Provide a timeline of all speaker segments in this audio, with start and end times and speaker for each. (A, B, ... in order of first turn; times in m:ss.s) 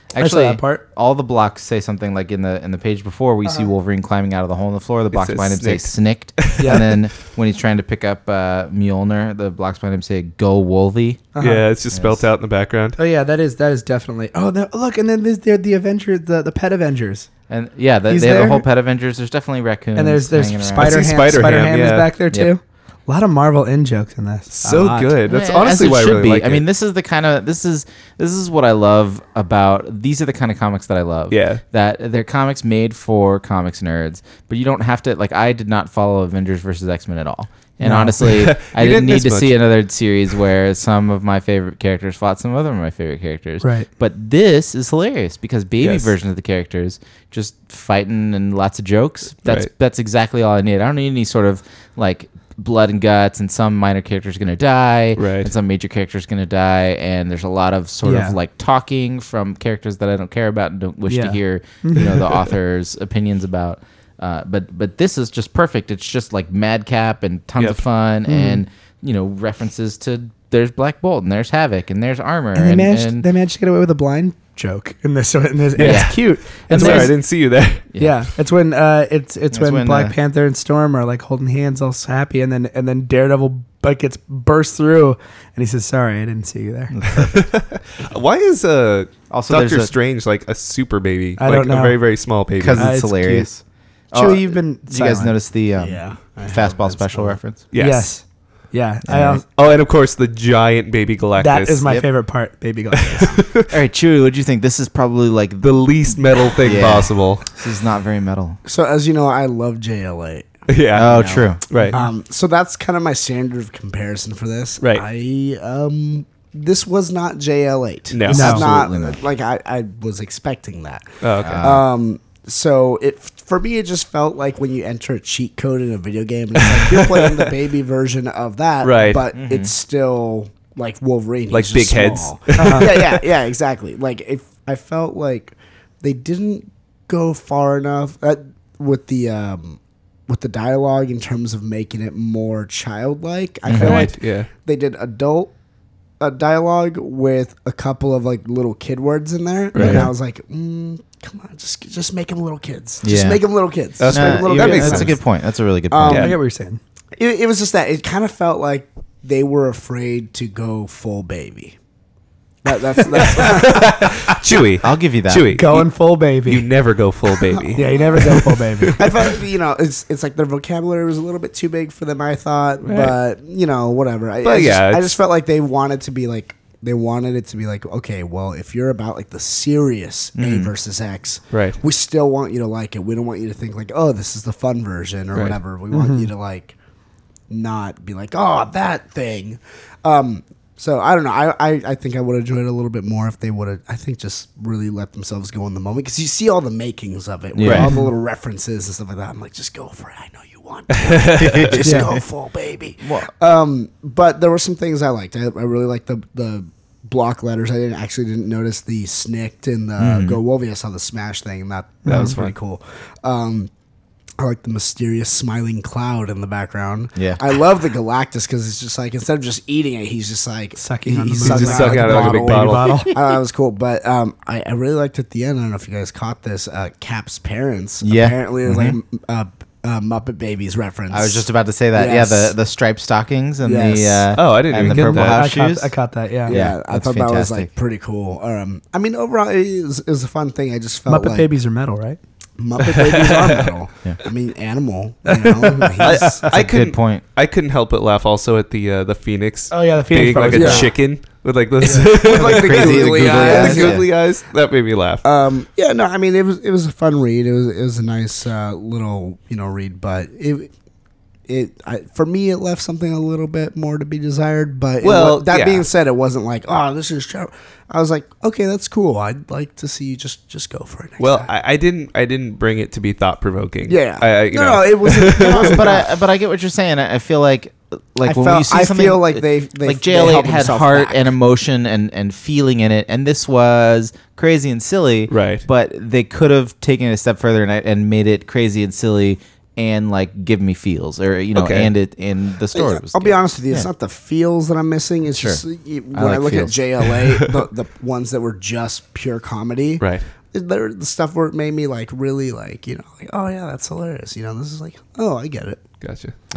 0:00.1-0:11.3 A
0:00.2-0:00.8 B
0:05.1-0:07.0 C
0:06.6-0:06.8 B
0:11.3-0:11.7 B
0:11.4-0:13.0 C
0:11.9-0:12.3 A
0:13.0-0:17.3 B
0:17.5-0:21.1 A
0:18.1-0:18.6 B
0:20.0-0:25.1 B
0:20.8-0:22.1 C
0:24.5-0:26.6 C
0:25.3-1:13.2 A
0:31.3-0:31.6 C
0:37.8-0:38.2 B
0:38.2-0:39.6 C
0:43.6-0:43.9 B
0:45.8-0:46.1 C
0:55.2-0:55.5 C
0:58.0-0:58.4 B
1:01.1-1:02.2 B
1:08.2-1:08.6 B
1:12.5-1:17.1 B
1:15.8-1:17.2 A
1:15.8-1:17.8 C
1:18.0-1:27.0 B
1:19.5-1:20.1 A
1:26.9-1:27.3 A
1:27.1-1:33.0 C
1:29.3-1:29.9 A
1:31.4-1:32.0 B
1:32.6-1:37.6 A
1:32.7-1:33.5 B
1:34.1-1:35.3 B
1:35.8-1:37.4 D
1:37.7-1:38.1 C
1:37.8-1:39.4 B
1:39.1-1:39.4 A
1:39.5-1:41.8 C
1:41.4-1:43.4 B
1:43.0-1:43.7 C
1:43.7-1:45.7 A
1:45.6-1:47.5 C
1:46.4-1:48.6 A
1:48.6-1:50.5 D
1:50.7-1:52.0 C
1:50.9-1:51.6 A
1:51.9-2:25.5 D
1:58.1-1:58.6 C
1:58.3-1:58.6 B
1:58.3-1:59.2 A
2:01.2-2:01.7 C
2:01.4-2:01.8 A
2:06.6-2:07.5 C
2:08.8-2:09.2 C
2:09.3-2:09.7 A
2:11.5-2:13.2 C
2:12.6-2:13.0 B
2:23.7-2:24.1 A
2:23.7-2:24.5 C
2:26.2-2:35.2 D
2:29.7-2:30.1 C
2:29.8-2:30.1 A
2:33.0-2:33.4 A
2:34.0-2:35.2 C
2:34.1-2:36.4 A
2:35.9-2:36.3 D
2:36.0-2:36.3 C
2:36.1-2:36.8 B
2:37.2-2:41.8 D
2:42.6-2:44.4 D
2:43.1-2:49.3 C
2:44.8-2:45.6 A
2:45.5-2:46.6 B
2:47.4-2:48.4 D
2:47.7-2:49.0 B
2:49.0-3:06.7 D
2:52.8-2:53.2 C
2:54.4-2:55.2 C
3:00.4-3:00.7 A
3:01.5-3:01.8 C
3:05.3-3:05.6 C
3:05.9-3:06.3 B
3:07.5-3:33.7 D
3:17.5-3:17.9 A
3:17.6-3:17.9 C
3:17.7-3:18.1 B
3:20.9-3:21.9 C
3:21.4-3:22.2 A
3:21.8-3:22.1 B
3:23.0-3:23.3 A
3:30.0-3:30.4 A
3:32.0-3:32.4 B
3:32.1-3:32.5 C
3:34.4-3:52.5 D
3:37.2-3:37.4 A
3:40.8-3:43.1 B
3:41.4-3:43.0 C
3:48.0-3:49.0 A
3:51.1-3:55.9 A
3:53.6-3:54.3 D
3:54.3-3:55.4 C
3:54.8-3:56.6 B
3:56.4-3:57.7 A
3:56.4-4:01.5 D
4:01.1-4:02.2 B
4:02.6-4:06.4 D
4:02.8-4:03.7 C
4:05.3-4:06.5 B
4:06.0-4:15.2 C
4:06.5-4:07.2 A
4:09.7-4:10.9 B
4:10.4-4:10.9 D
4:11.8-4:14.0 D
4:12.2-4:14.1 A
4:15.2-4:20.7 D
4:21.5-4:31.5 D
4:25.0-4:25.9 C
4:31.2-4:35.9 C
4:33.8-4:36.1 D
4:35.4-4:53.9 A
4:38.2-4:41.3 D
4:45.3-4:45.6 C
4:51.5-4:51.9 C
4:52.7-5:05.8 D
4:55.3-4:55.6 A
4:56.1-4:56.8 A
5:00.0-5:00.2 C
5:06.0-5:06.3 C